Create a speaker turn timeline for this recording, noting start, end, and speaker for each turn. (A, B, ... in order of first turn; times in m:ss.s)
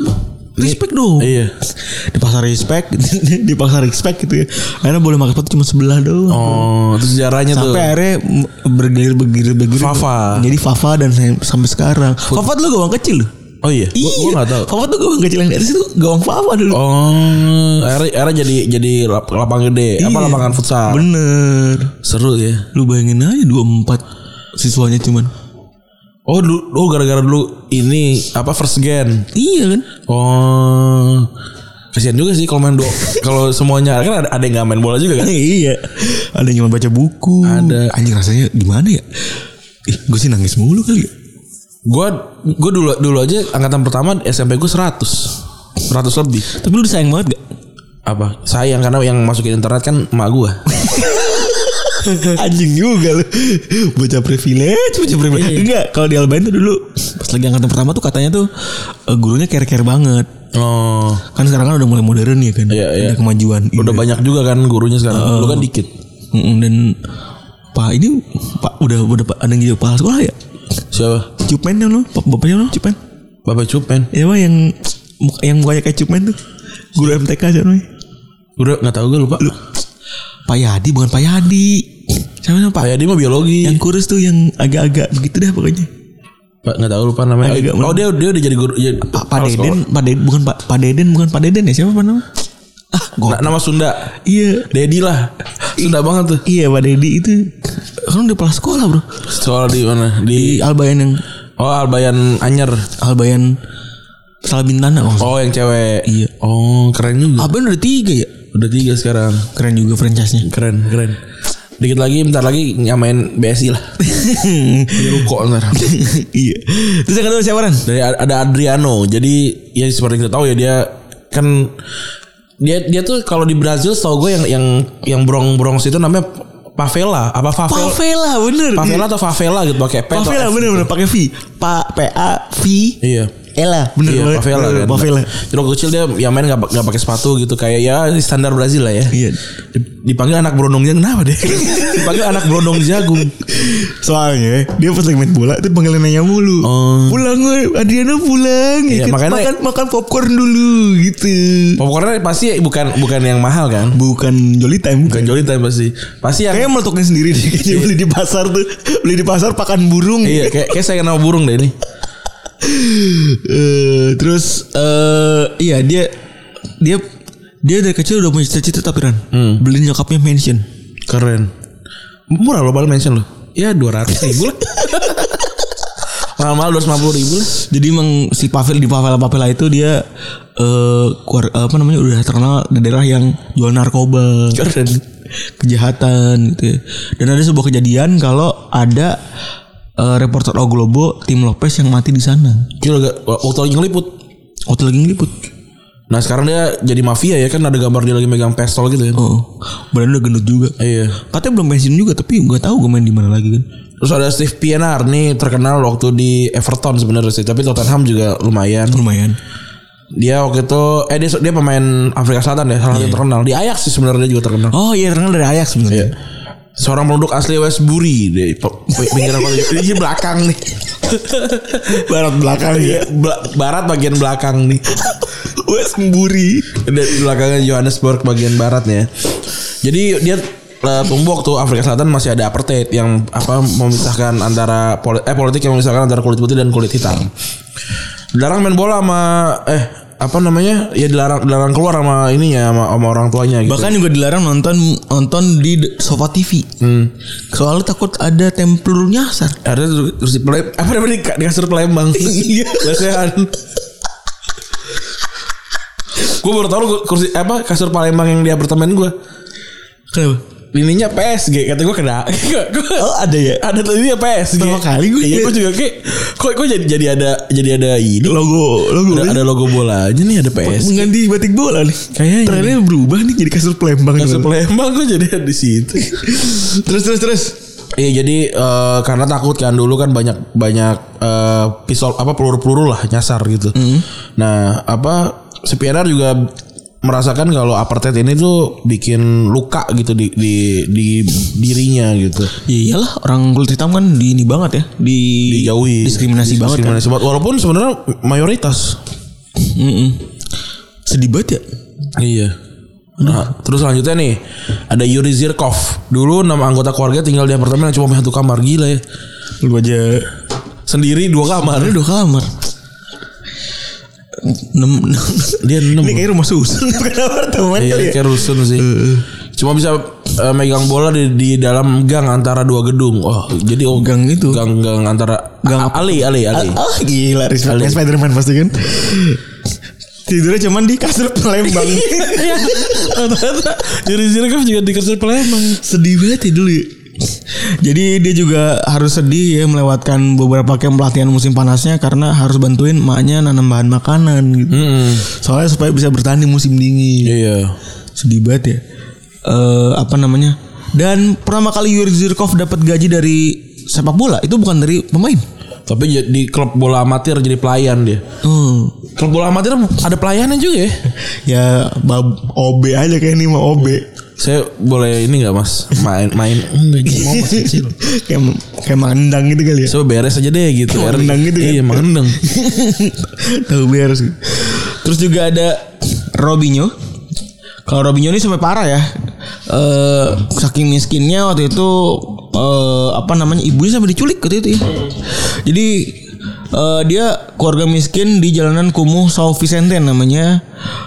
0:00.6-0:06.7 A
0:00.6-0:01.5 B
0:06.3-0:07.9 B
0:07.5-0:13.3 A
0:09.7-0:10.5 B
0:13.6-0:14.7 B
0:13.9-0:16.8 A
0:16.7-0:21.0 B
0:20.0-0:21.9 A
0:22.0-0:22.7 B
0:22.7-0:25.3 A
0:26.2-0:29.3 B
0:29.3-0:29.8 A
0:30.1-0:31.3 B
0:31.9-0:35.3 B
0:35.2-0:39.0 A
0:37.4-0:37.9 B
0:39.8-0:41.1 A
0:41.8-0:46.5 B
0:46.5-0:47.4 A
0:48.0-0:50.7 B
0:50.7-1:00.3 A
0:55.3-0:55.6 B
1:00.5-1:01.2 B
1:01.3-1:04.0 A
1:02.7-1:03.2 B
1:03.7-1:05.9 B
1:05.1-1:05.7 A
1:06.3-1:07.0 A
1:07.7-1:10.4 A
1:10.9-1:11.3 B
1:11.3-1:13.0 A
1:13.4-1:14.1 B
1:14.1-1:16.4 A
1:16.9-1:17.9 A
1:18.6-1:19.5 B
1:20.5-1:22.9 A
1:22.8-1:23.8 B
1:23.6-1:25.9 A
1:26.6-1:29.8 B
1:27.4-1:28.1 A
1:29.1-1:32.3 A
1:32.9-1:33.6 A
1:33.2-1:34.1 B
1:34.2-1:34.7 A
1:34.7-1:36.4 B
1:35.8-1:39.2 A
1:39.3-1:40.6 B
1:40.3-1:41.2 A
1:41.6-1:42.9 B
1:43.0-1:43.6 A
1:44.4-1:45.4 A
1:45.2-1:47.5 B
1:46.0-1:46.3 A
1:47.4-1:48.3 A
1:48.5-1:49.5 B
1:49.5-1:50.5 A
1:50.4-1:51.2 B
1:51.8-1:54.0 B
1:54.0-1:57.8 A
1:54.9-1:55.8 B
1:57.8-2:01.7 B
2:02.6-2:08.0 B
2:07.7-2:09.1 A
2:08.7-2:10.9 B
2:10.1-2:13.0 A
2:13.0-2:13.3 B
2:13.5-2:15.3 A
2:14.0-2:19.2 B
2:19.1-2:19.4 A
2:19.7-2:23.3 B
2:21.5-2:31.8 A
2:26.6-2:27.2 B
2:28.9-2:29.5 B
2:31.8-2:34.0 B
2:33.9-2:35.4 A
2:35.1-2:36.7 B
2:36.5-2:40.7 A
2:40.2-2:41.7 B
2:42.6-2:46.1 A
2:46.8-2:47.0 A
2:47.6-2:50.7 A
2:49.3-2:49.6 B
2:51.1-2:51.5 B
2:52.3-2:55.3 B
2:56.2-2:57.6 B
2:57.5-3:00.0 A
3:00.6-3:04.8 A
3:04.5-3:05.0 B
3:05.6-3:09.2 A
3:10.0-3:12.7 A
3:12.8-3:14.1 B
3:14.7-3:15.3 A
3:16.1-3:19.2 B
3:19.2-3:23.6 A
3:20.8-3:21.2 B
3:24.0-3:29.0 B
3:28.9-3:29.4 A
3:30.1-3:34.7 B
3:32.9-3:33.2 A
3:34.7-3:36.1 A
3:36.8-3:42.0 B
3:39.0-3:39.8 A
3:41.9-3:43.1 A
3:42.6-3:44.9 B
3:44.9-3:46.8 A
3:46.8-3:49.1 B
3:49.8-3:57.3 B
3:58.3-4:03.9 B
4:03.6-4:06.7 A
4:06.8-4:07.1 B
4:07.5-4:09.6 A
4:09.6-4:13.5 B
4:12.2-4:13.1 A
4:16.2-4:19.1 B
4:20.1-4:20.4 A
4:20.7-4:28.4 B
4:23.0-4:23.6 A
4:24.6-4:25.6 A
4:28.2-4:29.5 A
4:29.0-4:31.1 B
4:30.6-4:34.5 A
4:32.1-4:32.8 B
4:34.2-4:36.4 B
4:36.0-4:37.6 A
4:38.0-4:43.8 B
4:43.7-4:44.0 A
4:44.4-4:46.5 B
4:47.0-4:52.5 B
4:52.6-4:57.0 A
4:55.4-4:59.0 B
4:59.6-5:00.3 A
5:01.0-5:01.6 A
5:02.2-5:02.5 B
5:03.2-5:09.0 B
5:09.6-5:10.3 A
5:10.8-5:12.0 B
5:11.6-5:12.5 A
5:14.4-5:19.2 A
5:15.6-5:16.3 B
5:17.8-5:18.9 B
5:19.6-5:26.8 B
5:23.9-5:24.6 A
5:25.6-5:29.4 A
5:27.6-5:28.0 B
5:30.2-5:33.4 A
5:31.8-5:35.8 B
5:35.5-5:47.3 A
5:44.7-5:45.2 B
5:47.2-5:47.8 B
5:48.2-5:48.8 A
5:49.4-5:55.4 A
5:55.9-5:58.2 B
5:58.4-5:58.9 A
5:59.1-6:01.0 B
6:01.3-6:04.0 A
6:04.4-6:08.0 B
6:07.0-6:10.0 A
6:09.8-6:12.4 B
6:10.9-6:16.9 A
6:17.8-6:19.1 A
6:19.7-6:30.6 A